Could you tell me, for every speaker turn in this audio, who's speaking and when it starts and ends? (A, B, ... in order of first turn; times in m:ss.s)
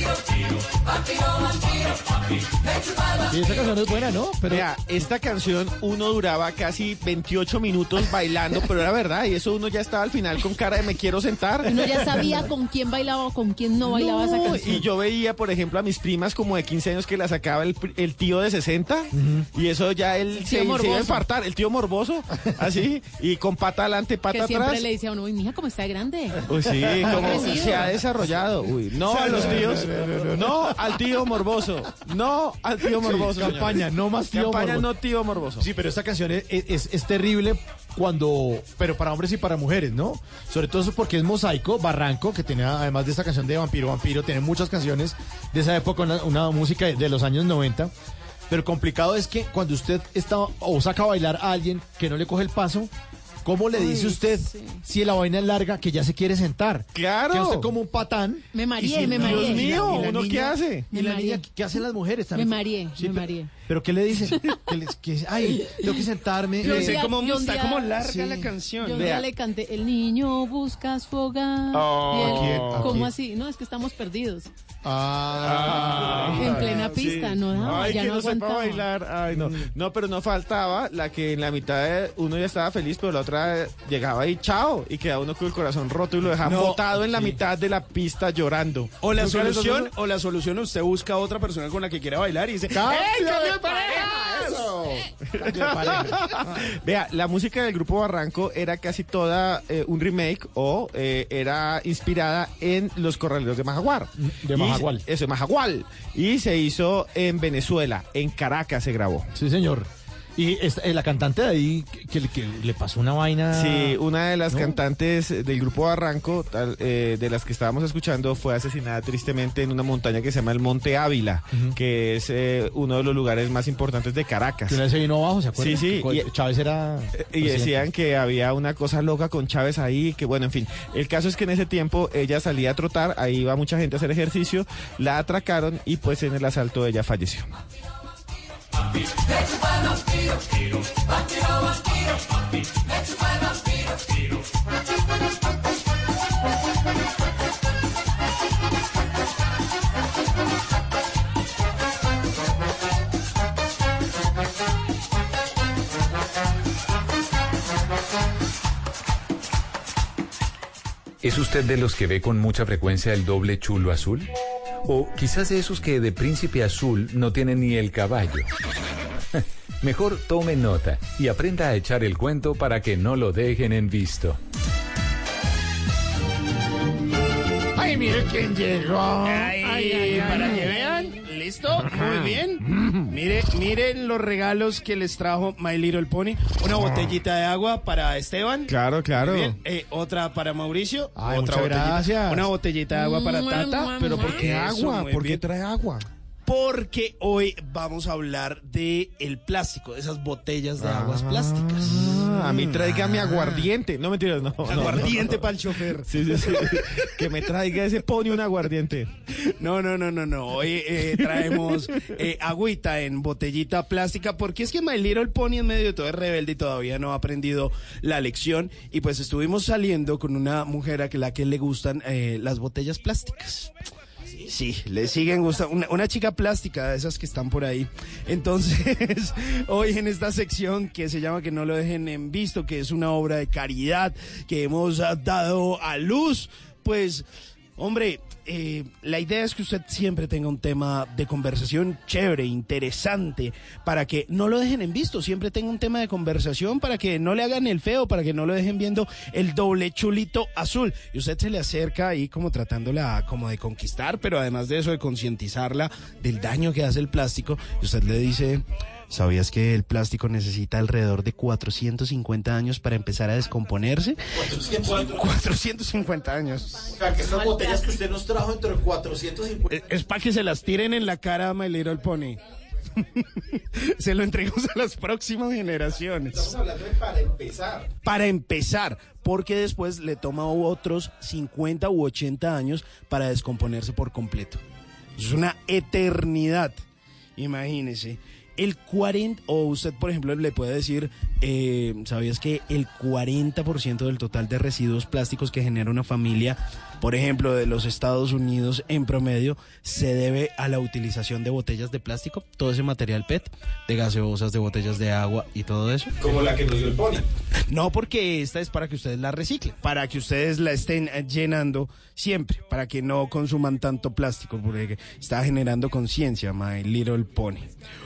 0:03.3-0:04.7 A
0:04.5-0:12.3 B
0:11.7-0:14.6 C
0:13.9-0:24.8 B
0:14.4-0:14.8 A
0:19.1-0:19.5 A
0:20.4-0:21.2 C
0:24.3-0:26.4 C
0:26.5-0:35.7 B
0:26.8-0:27.9 A
0:27.0-0:27.9 C
0:29.1-0:31.0 A
0:32.9-0:34.9 A
0:35.6-0:47.9 A
0:48.5-0:52.9 A
0:53.4-1:07.1 A
0:53.8-0:54.8 C
0:57.0-0:57.7 B
0:58.5-1:00.0 C
0:59.1-1:00.9 B
1:00.9-1:01.4 C
1:02.4-1:03.5 C
1:06.6-1:08.0 C
1:06.6-1:09.1 D
1:08.0-1:08.5 A
1:08.8-1:14.5 C
1:09.0-1:09.2 B
1:11.7-1:13.0 B
1:12.1-1:13.1 A
1:14.8-1:16.7 A
1:15.4-1:29.9 B
1:16.3-1:18.8 C
1:17.6-1:17.9 A
1:19.3-1:19.7 A
1:26.4-1:26.9 D
1:29.0-1:34.7 D
1:32.7-1:36.4 A
1:35.2-1:49.3 B
1:44.2-1:45.0 A
1:49.3-1:54.0 A
1:53.5-2:04.8 B
1:54.5-1:54.8 A
2:04.7-2:07.9 A
2:05.6-2:06.3 B
2:07.2-2:17.5 B
2:41.2-2:44.3 E
2:44.8-2:48.5 E
2:49.4-2:54.4 E
2:57.8-3:00.2 A
2:59.2-3:15.4 D
3:08.7-3:09.6 B
3:11.2-3:12.5 A
3:12.9-3:14.4 C
3:14.0-3:16.1 B
3:16.5-3:23.4 D
3:20.9-3:25.5 B
3:21.9-3:23.6 A
3:24.6-3:27.0 D
3:26.1-3:29.2 B
3:29.4-3:43.7 D
3:31.4-3:31.8 B
3:44.5-4:24.2 D
4:24.3-4:25.3 A
4:24.8-4:26.9 D
4:26.9-4:29.8 A
4:27.2-4:27.8 C
4:29.7-4:32.4 D
4:33.0-4:36.5 D
4:36.3-4:37.9 B
4:38.0-4:44.6 D
4:45.2-4:46.8 D
4:47.4-5:06.2 D
5:06.2-5:07.3 B
5:07.7-5:17.7 D